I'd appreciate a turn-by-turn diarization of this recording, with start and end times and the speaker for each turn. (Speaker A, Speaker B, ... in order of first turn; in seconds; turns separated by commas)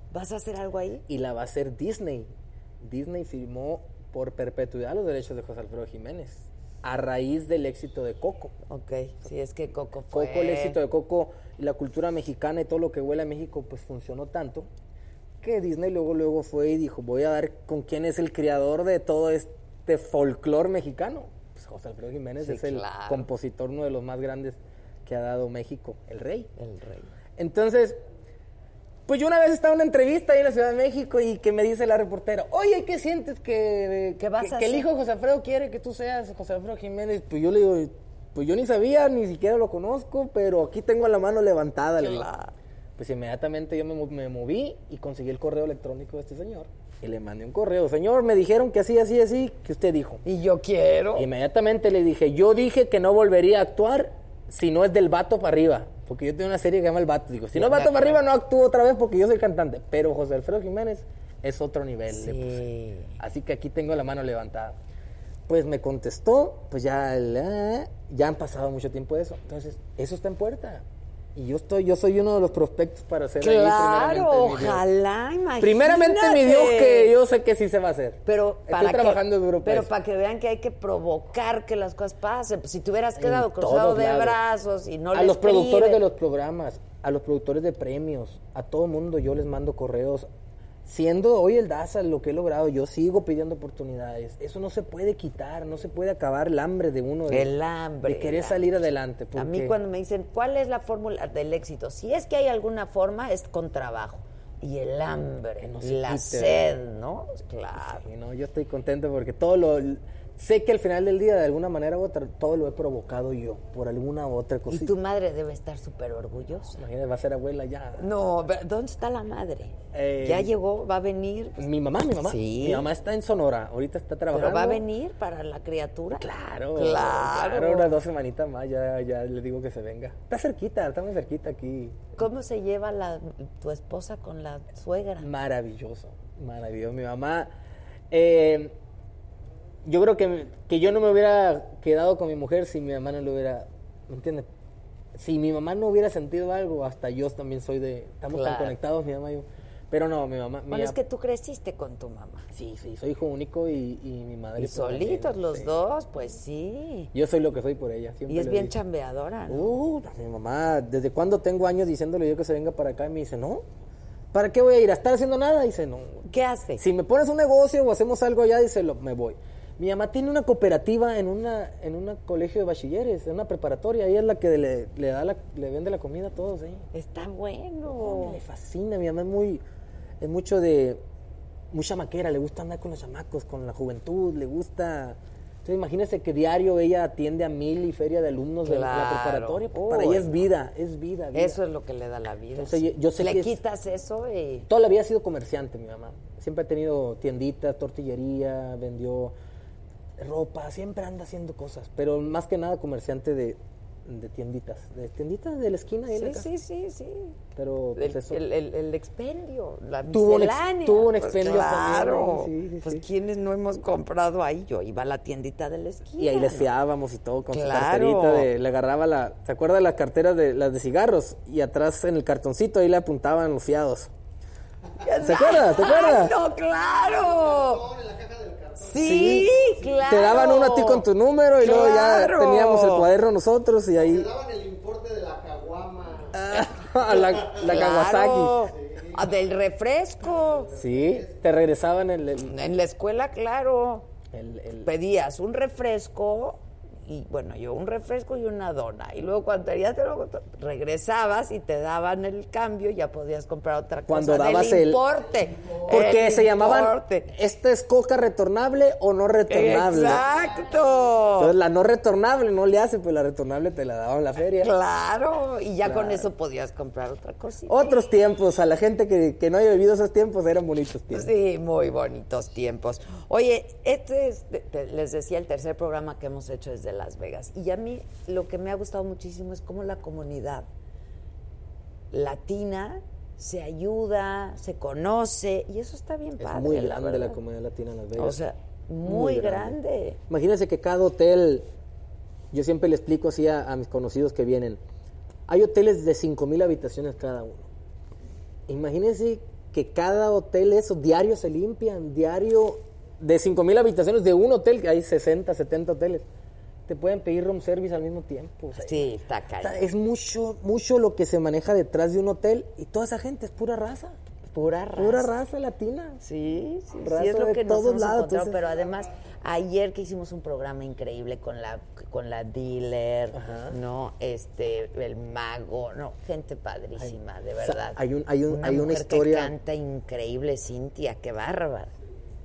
Speaker A: 0.1-1.0, Speaker B: 1.1-8.5, Speaker A: 8.7-10.8, Speaker B: 10.1-14.7, Speaker B: 15.4-26.5, Speaker A: 22.4-23.3, Speaker A: 26.6-27.1, Speaker B: 27.4-28.0, Speaker B: 29.1-42.3, Speaker A: 34.2-34.9, Speaker A: 42.0-42.5, Speaker B: 43.0-50.2, Speaker A: 50.2-51.3, Speaker B: 51.1-62.6, Speaker A: 57.5-58.2, Speaker A: 62.1-63.2, Speaker B: 63.2-64.8, Speaker B: 65.5-74.8, Speaker A: 73.4-77.1, Speaker B: 75.6-79.9, Speaker A: 78.2-86.0, Speaker B: 83.2-84.4, Speaker B: 85.1-90.3, Speaker B: 90.8-97.5, Speaker A: 97.3-98.7, Speaker B: 98.0-99.8, Speaker A: 99.3-108.0, Speaker B: 105.6-106.7, Speaker B: 107.8-114.9, Speaker A: 114.7-116.8, Speaker B: 116.8-118.0, Speaker A: 118.0-121.6, Speaker B: 119.9-120.5, Speaker B: 121.6-124.8, Speaker A: 122.2-122.9, Speaker A: 124.3-127.9, Speaker B: 126.2-132.1, Speaker A: 132.2-135.3, Speaker B: 135.2-137.5, Speaker B: 138.1-138.8, Speaker B: 139.8-144.5, Speaker B: 145.1-151.0, Speaker A: 148.3-148.8, Speaker A: 150.7-152.5, Speaker B: 152.5-155.7, Speaker A: 154.6-157.1, Speaker B: 157.1-158.7, Speaker A: 158.3-159.7, Speaker B: 159.5-163.6, Speaker B: 164.3-176.9, Speaker A: 166.3-166.8, Speaker A: 176.9-178.4, Speaker B: 177.9-179.6, Speaker B: 180.2-181.0, Speaker B: 181.7-191.6, Speaker A: 188.6-190.5, Speaker A: 191.3-194.7, Speaker B: 192.6-193.6, Speaker B: 194.7-199.3, Speaker B: 200.2-206.5, Speaker A: 206.1-207.4, Speaker B: 207.5-208.4, Speaker A: 207.9-216.7, Speaker B: 210.1-213.1, Speaker B: 216.2-224.1, Speaker A: 217.5-218.5, Speaker A: 225.0-227.8, Speaker B: 225.2-226.3, Speaker C: 226.9-230.1, Speaker A: 228.8-231.1, Speaker B: 229.0-234.3, Speaker A: 231.6-233.1, Speaker C: 233.9-236.6, Speaker B: 236.3-238.7, Speaker A: 237.1-240.7, Speaker C: 237.1-237.8, Speaker C: 238.7-239.3, Speaker C: 240.5-241.4, Speaker B: 240.8-242.5, Speaker A: 242.4-244.1, Speaker B: 244.3-244.9, Speaker A: 244.8-257.3, Speaker B: 254.1-255.0, Speaker B: 255.8-260.2, Speaker A: 259.5-261.5, Speaker B: 261.4-264.7, Speaker A: 264.6-268.0, Speaker B: 265.8-266.3, Speaker B: 267.7-271.3, Speaker A: 271.1-280.7, Speaker A: 282.1-287.4, Speaker B: 286.4-288.4, Speaker A: 288.1-290.2, Speaker B: 289.0-289.8, Speaker B: 290.3-291.7, Speaker B: 292.5-294.8, Speaker B: 295.5-297.7, Speaker B: 298.7-306.2, Speaker B: 306.9-314.2, Speaker A: 308.7-309.8, Speaker A: 314.5-315.3, Speaker B: 314.9-316.2, Speaker A: 316.2-331.9, Speaker B: 317.0-318.6, Speaker B: 323.3-323.8, Speaker B: 327.0-329.5